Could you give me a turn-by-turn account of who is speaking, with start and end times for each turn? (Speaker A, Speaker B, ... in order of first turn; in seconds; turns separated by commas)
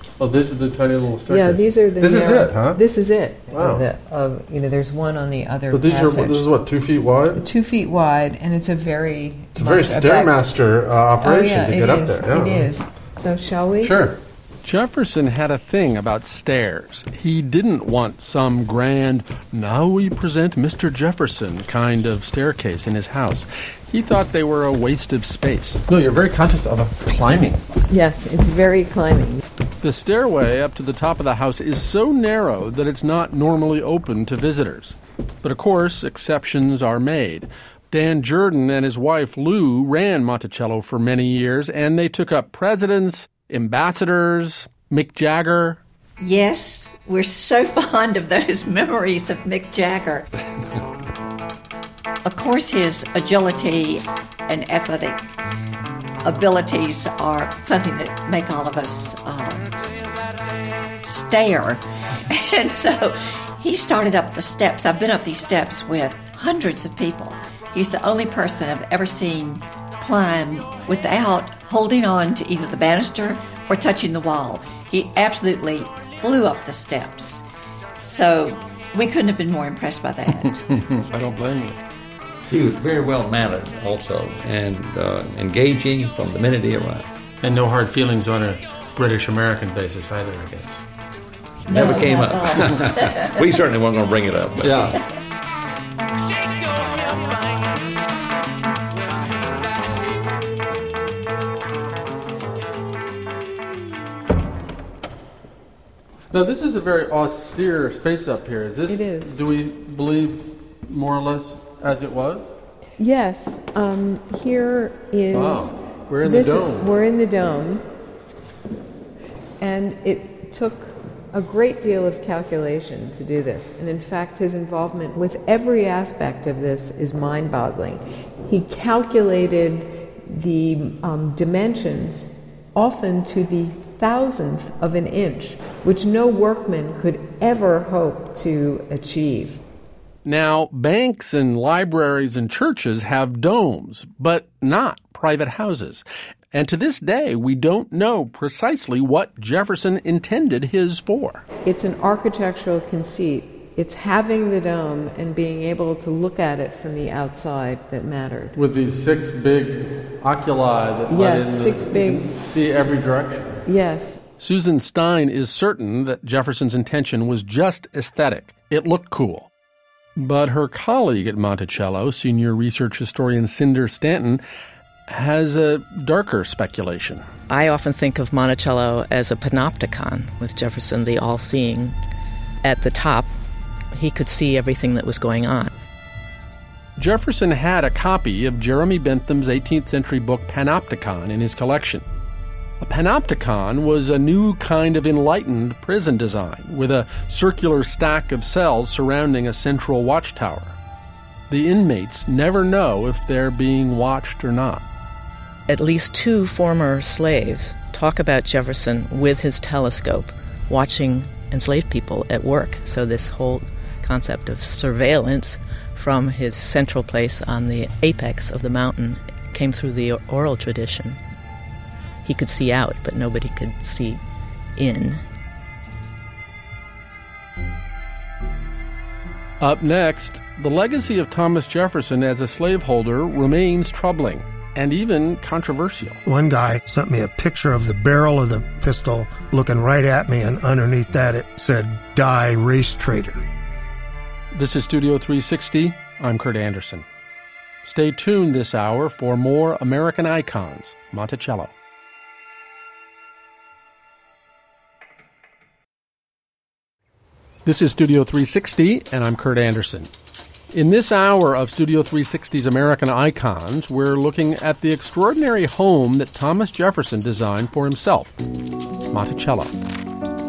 Speaker A: 0.2-2.8, Speaker B: 1.3-6.5, Speaker A: 3.5-3.8, Speaker A: 5.7-7.4, Speaker B: 7.3-10.4, Speaker A: 9.5-12.7, Speaker B: 11.2-14.1, Speaker A: 13.8-27.6, Speaker B: 27.9-29.4, Speaker A: 29.8-45.8, Speaker C: 46.2-50.3, Speaker C: 52.2-55.3, Speaker C: 56.2-59.7, Speaker C: 61.0-77.4, Speaker C: 78.0-80.6, Speaker A: 80.7-81.8, Speaker D: 82.5-87.1, Speaker A: 87.4-90.8, Speaker D: 91.7-94.9, Speaker A: 94.6-95.0, Speaker A: 106.3-112.5, Speaker B: 108.9-109.3, Speaker B: 113.0-117.9, Speaker A: 115.3-116.9, Speaker B: 119.6-139.6, Speaker A: 140.2-151.4, Speaker B: 151.6-158.5, Speaker A: 158.5-163.6, Speaker B: 161.1-162.3, Speaker B: 163.7-164.2, Speaker A: 164.4-169.5, Speaker A: 170.2-174.4, Speaker A: 175.1-177.2, Speaker E: 177.5-182.0, Speaker E: 182.6-183.3, Speaker E: 183.9-185.7, Speaker A: 187.0-192.1, Speaker A: 192.8-200.8, Speaker A: 201.5-204.8, Speaker E: 205.7-221.2, Speaker E: 222.2-224.2, Speaker E: 224.8-225.2, Speaker A: 229.6-236.2, Speaker F: 236.2-243.4, Speaker A: 244.5-247.1, Speaker A: 247.8-251.7, Speaker A: 257.6-260.1, Speaker A: 260.7-268.4, Speaker A: 269.1-269.7